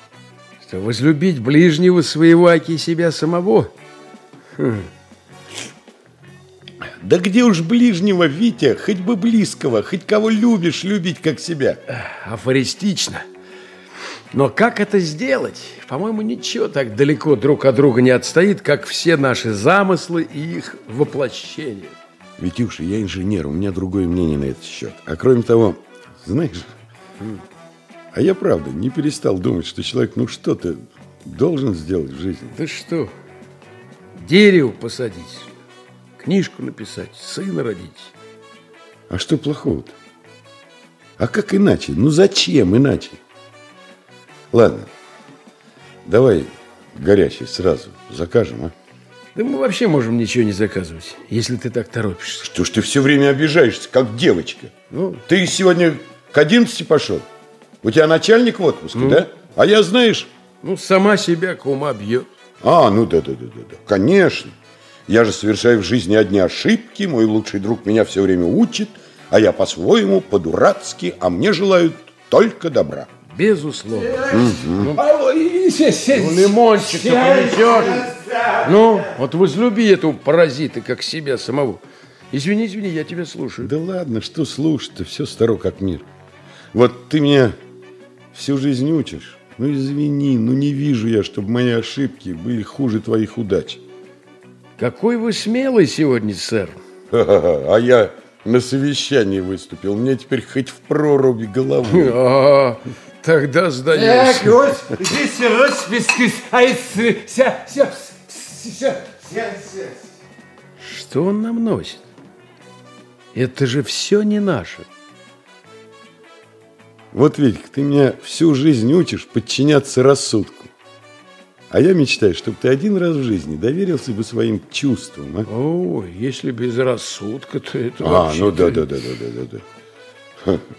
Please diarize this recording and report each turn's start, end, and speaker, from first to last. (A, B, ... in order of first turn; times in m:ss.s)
0:00.6-0:03.7 A
0:04.6-0:04.9 A
0:07.0-0:11.8 B
0:11.9-0:13.2 A
0:14.3-0:22.0 A
0:22.4-0:26.7 B
0:28.1-0:32.5 B
0:32.5-0:33.1 A
0:34.2-0:35.5 A
0:36.2-0:38.1 A
0:39.1-0:39.9 B
0:41.2-0:43.2 B
0:44.5-0:44.9 B
0:46.0-0:48.7 B
0:49.3-0:52.5 A
0:52.4-0:57.3 B
0:54.9-0:55.2 A
0:57.8-1:00.3 B
0:58.9-0:59.2 A
1:00.6-1:02.3 A
1:02.6-1:04.5 B
1:05.1-1:13.1 B
1:13.3-1:14.3 A
1:13.9-1:19.1 C
1:14.3-1:14.9 B
1:16.1-1:18.1 A
1:18.6-1:23.7 A
1:23.6-1:26.0 B
1:26.7-1:27.6 B
1:28.3-1:33.8 B
1:34.8-1:36.8 A
1:37.1-1:42.2 B
1:41.8-1:44.6 A
1:43.9-1:50.1 C
1:50.8-1:52.1 A
1:53.3-1:54.8 A
1:57.1-2:00.7 B
2:01.7-2:05.5 B
2:05.5-2:08.8 A
2:08.0-2:09.6 B